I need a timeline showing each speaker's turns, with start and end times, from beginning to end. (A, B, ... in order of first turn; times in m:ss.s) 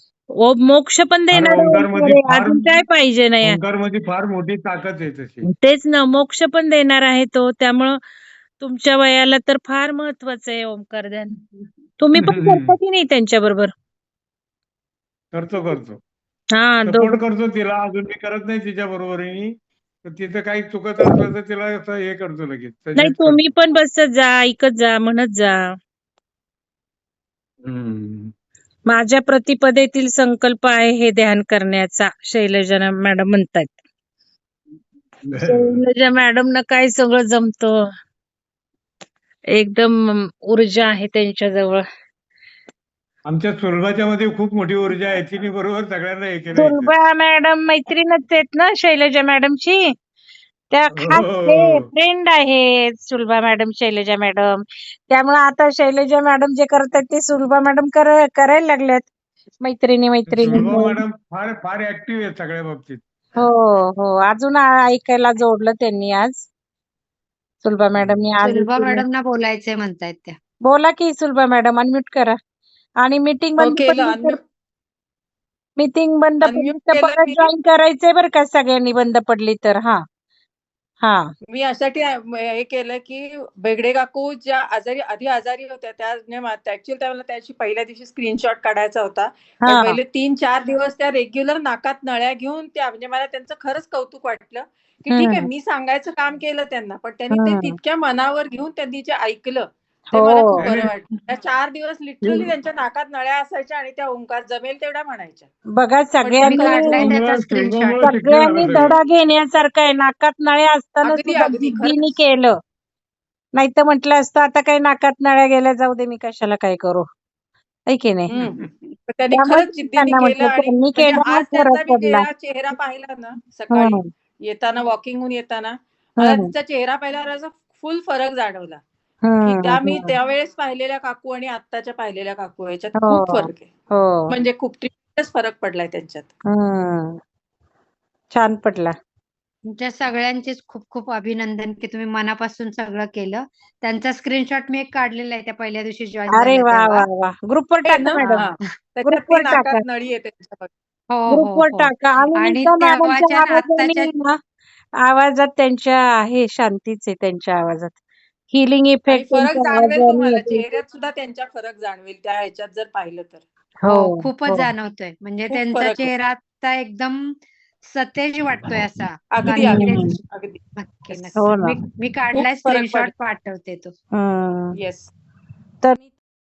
0:00.3-0:03.6 A
0:01.3-0:02.7 B
0:03.4-0:05.5 B
0:05.4-0:08.0 A
0:08.6-0:11.3 A
0:12.0-0:13.7 A
0:12.2-0:12.7 B
0:15.3-0:16.0 B
0:16.5-0:17.2 A
0:16.8-0:19.5 B
0:20.0-0:23.4 B
0:23.0-0:25.6 A
0:27.6-0:28.3 B
0:28.9-0:33.7 A
0:35.2-0:35.8 B
0:35.4-0:37.8 A
0:39.5-0:41.8 A
0:43.2-0:46.9 B
0:46.5-0:49.9 A
0:50.7-0:59.1 A
0:50.9-0:51.8 B
0:59.6-1:01.0 A
1:00.3-1:03.0 B
1:03.4-1:06.4 A
1:07.6-1:09.0 A
1:08.4-1:10.4 C
1:10.6-1:12.4 A
1:13.0-1:14.4 A
1:13.6-1:14.4 D
1:15.8-1:20.0 A
1:16.4-1:17.5 D
1:21.0-1:21.3 A
1:21.5-1:45.5 D
1:29.6-1:30.0 A
1:35.1-1:35.4 A
1:37.3-1:37.8 A
1:40.1-1:40.7 A
1:40.6-1:40.9 B
1:42.2-1:42.5 B
1:45.8-1:47.1 A
1:46.2-1:47.1 D
1:46.4-1:48.1 C
1:47.0-1:48.9 B
1:48.0-1:52.5 A
1:51.0-1:52.2 D
1:53.5-1:57.1 A
1:57.9-1:58.3 A
1:58.3-2:08.8 D
1:59.3-2:02.2 A
2:03.7-2:04.0 A
2:06.2-2:06.5 A
2:09.2-2:10.1 A
2:09.4-2:13.7 D
2:13.0-2:14.3 A
2:14.3-2:16.3 D
2:16.5-2:17.2 A
2:18.3-2:18.9 A
2:19.7-2:27.0 C
2:26.3-2:28.4 A
2:27.8-2:30.7 D
2:29.0-2:29.8 A
2:31.1-2:34.1 C
2:31.3-2:34.4 A
2:35.0-2:38.0 A
2:38.5-2:40.6 A
2:39.1-2:43.4 D
2:43.8-2:44.7 A
2:43.9-2:50.2 C
2:45.5-2:46.1 D
2:49.3-2:50.6 D
2:49.6-2:50.2 A
2:50.8-2:53.9 C
2:51.4-2:51.8 A
2:52.3-2:53.1 D
2:54.1-2:54.7 A
2:54.7-2:55.1 D